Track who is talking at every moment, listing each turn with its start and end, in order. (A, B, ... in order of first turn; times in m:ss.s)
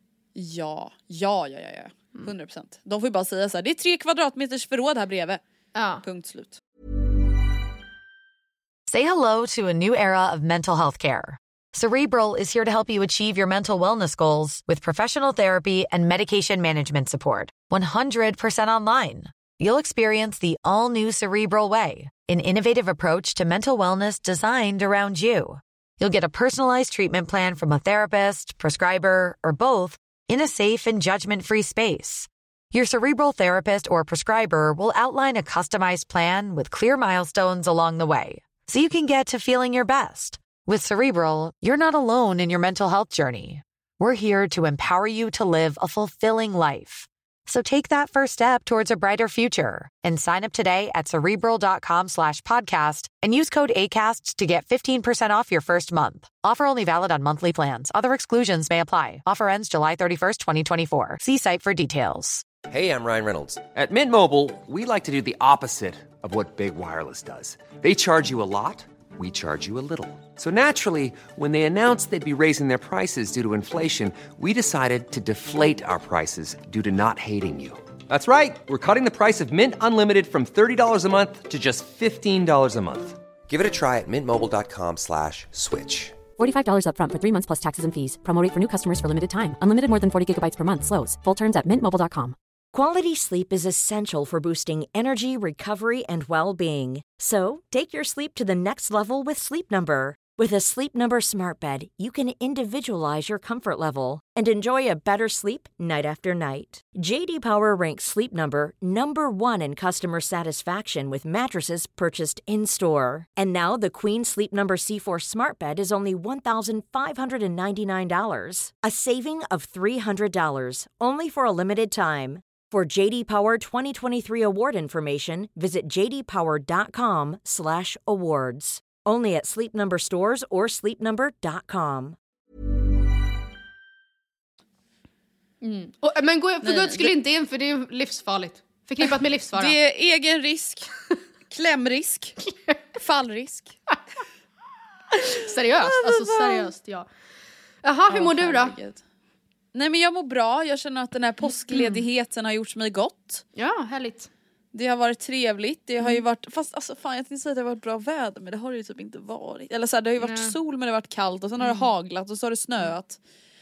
0:00.4-0:05.4 A
0:05.8-0:06.0 B
0:06.0-0:06.6 A
0:08.9-1:02.4 C
1:02.7-1:26.2 D
1:26.4-1:32.4 E
1:32.7-2:12.2 F
2:15.6-2:19.7 B
2:16.6-2:17.2 A
2:19.6-2:22.4 A
2:23.0-2:23.8 A
2:25.1-2:27.1 B
2:25.8-2:26.7 A
2:27.8-2:28.8 B
2:28.1-2:29.0 A
2:29.7-2:33.4 A
2:31.7-2:32.0 B
2:33.6-2:34.3 B
2:34.7-2:43.2 A
2:40.2-2:40.5 B
2:41.6-2:41.9 B